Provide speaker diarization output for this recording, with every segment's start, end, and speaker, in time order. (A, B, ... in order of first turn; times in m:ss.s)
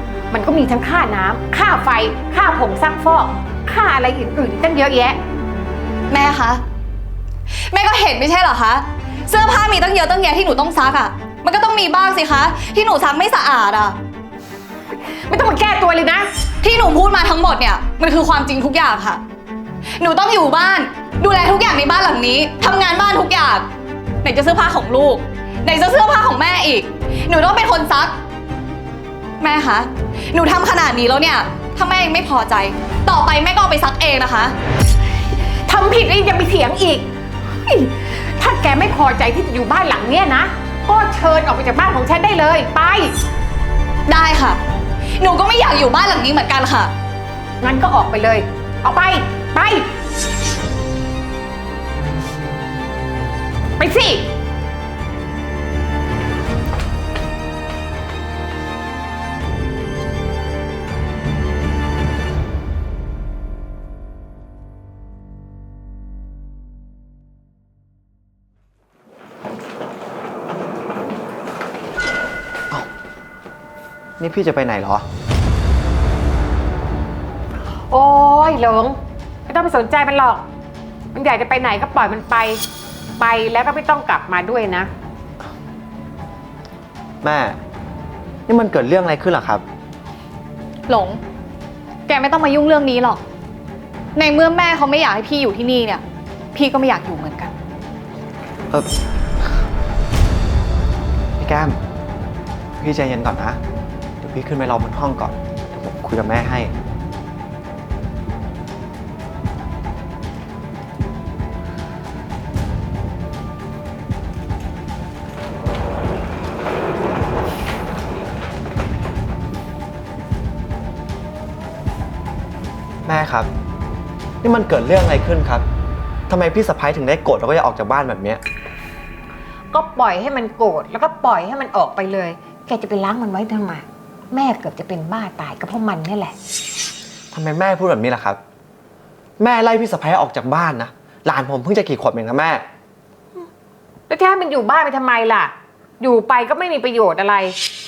0:00.3-0:05.2 A
0:06.1-0:06.6 B
0:07.5-0:14.0 B
0:15.3-0:16.3 A
0:16.6-0:19.2 B
0:20.0-0:23.7 B
0:24.2-0:28.2 B
0:29.4-0:34.5 B
0:35.7-0:37.1 A
0:37.6-0:43.1 A
0:44.1-0:44.6 B
0:45.2-0:46.9 B
0:47.6-0:49.9 A
0:53.8-0:54.3 A
1:14.2-1:15.1 C
1:17.9-1:20.4 A
1:21.1-1:22.6 A
1:23.2-1:24.9 A
1:27.2-1:27.6 C
1:28.5-1:29.6 C
1:30.9-1:31.2 B
1:32.1-1:33.2 B
1:34.2-1:36.0 B
1:36.5-1:37.5 B
1:41.4-1:41.8 C
1:42.8-1:43.6 C
1:44.2-1:46.7 C
2:03.0-2:03.5 C
2:04.4-2:05.6 C
2:06.3-2:08.4 C
2:09.7-2:16.4 A
2:17.3-2:18.4 C
2:19.4-2:22.6 C
2:24.1-2:27.6 A